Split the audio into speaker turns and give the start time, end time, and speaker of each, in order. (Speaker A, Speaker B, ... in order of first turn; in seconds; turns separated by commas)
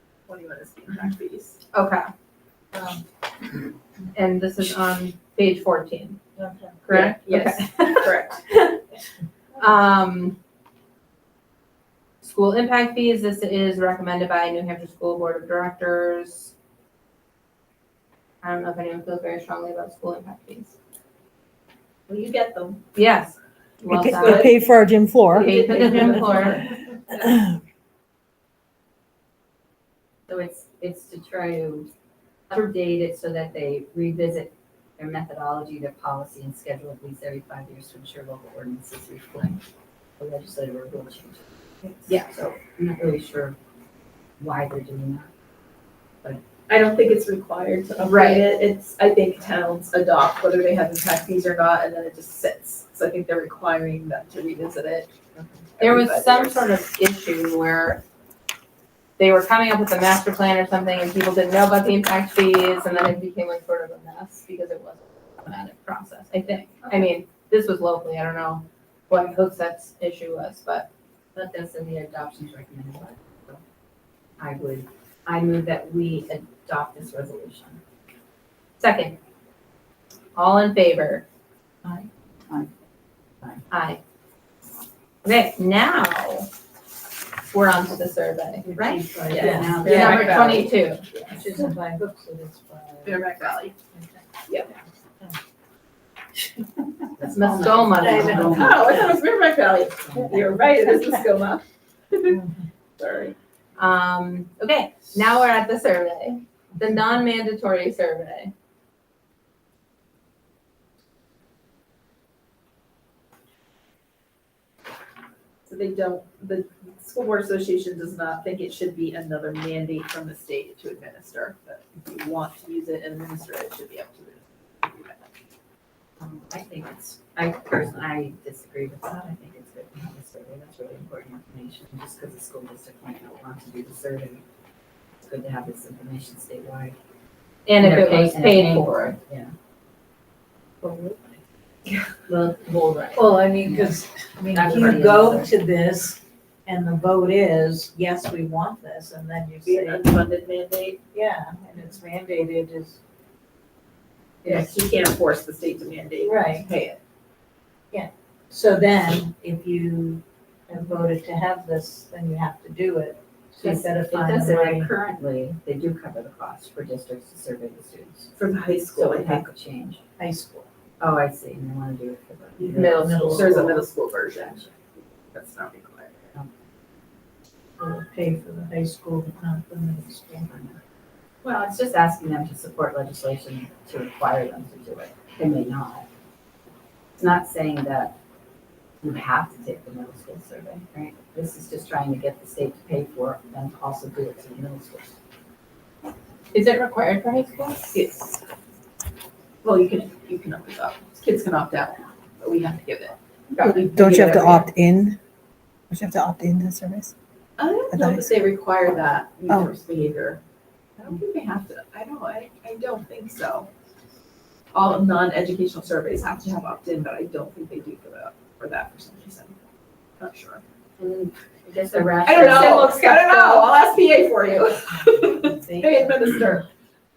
Speaker A: 0.3-1.6, Speaker B: 1.7-2.1, Speaker B: 4.1-6.2, Speaker C: 6.3-7.1, Speaker B: 6.9-8.8, Speaker A: 6.9-8.4, Speaker B: 9.6-10.4, Speaker B: 12.2-16.5, Speaker B: 18.4-20.7, Speaker A: 22.1-22.8, Speaker B: 22.9-24.5, Speaker A: 23.9-24.6, Speaker C: 23.9-26.2, Speaker D: 24.0-25.5, Speaker A: 25.3-27.4, Speaker B: 25.3-26.6, Speaker E: 30.3-31.9, Speaker E: 32.5-39.6, Speaker E: 40.2-43.6, Speaker E: 44.4-45.3, Speaker A: 46.7-55.1, Speaker B: 48.0-48.5, Speaker E: 55.4-55.6, Speaker A: 55.8-56.6, Speaker B: 55.8-58.0, Speaker B: 59.2-70.9, Speaker E: 71.3-73.6, Speaker E: 74.4-77.8, Speaker B: 78.8-79.2, Speaker B: 80.3-81.2, Speaker B: 83.7-84.0, Speaker B: 85.2-86.5, Speaker B: 87.5-89.1, Speaker C: 88.7-90.3, Speaker A: 89.2-91.2, Speaker E: 89.3-90.7, Speaker B: 89.8-91.0, Speaker C: 91.3-93.2, Speaker A: 93.0-93.7, Speaker E: 97.2-99.2, Speaker B: 97.3-98.7, Speaker C: 98.0-98.8, Speaker A: 98.2-102.5, Speaker E: 100.0-100.8, Speaker A: 103.0-103.3, Speaker B: 103.8-108.5, Speaker A: 115.7-125.3, Speaker E: 126.2-134.4, Speaker E: 135.2-136.9, Speaker B: 137.7-139.2, Speaker E: 137.8-139.5, Speaker B: 140.8-141.2, Speaker B: 142.3-143.2, Speaker C: 143.1-150.1, Speaker E: 143.6-144.0, Speaker E: 144.5-145.5, Speaker A: 149.6-151.0, Speaker C: 151.1-153.0, Speaker A: 154.4-157.0, Speaker C: 156.2-156.7, Speaker C: 157.9-164.9, Speaker E: 163.6-168.3, Speaker A: 168.3-169.4, Speaker E: 168.9-170.0, Speaker C: 170.2-170.7, Speaker E: 171.0-173.1, Speaker B: 172.7-173.6, Speaker C: 172.8-173.8, Speaker A: 173.3-174.7, Speaker A: 175.3-176.1, Speaker C: 177.8-180.5, Speaker E: 180.5-180.8, Speaker E: 181.4-186.1, Speaker E: 187.2-188.2, Speaker E: 189.0-195.1, Speaker B: 196.5-197.9, Speaker A: 197.9-198.4, Speaker A: 199.6-204.7, Speaker B: 203.5-203.9, Speaker D: 203.6-205.2, Speaker D: 205.9-207.1, Speaker A: 207.6-210.4, Speaker D: 207.9-208.2, Speaker A: 211.0-213.7, Speaker A: 214.7-219.6, Speaker A: 220.2-220.6, Speaker E: 221.0-223.1, Speaker A: 222.0-226.7, Speaker B: 222.6-223.7, Speaker E: 224.9-226.5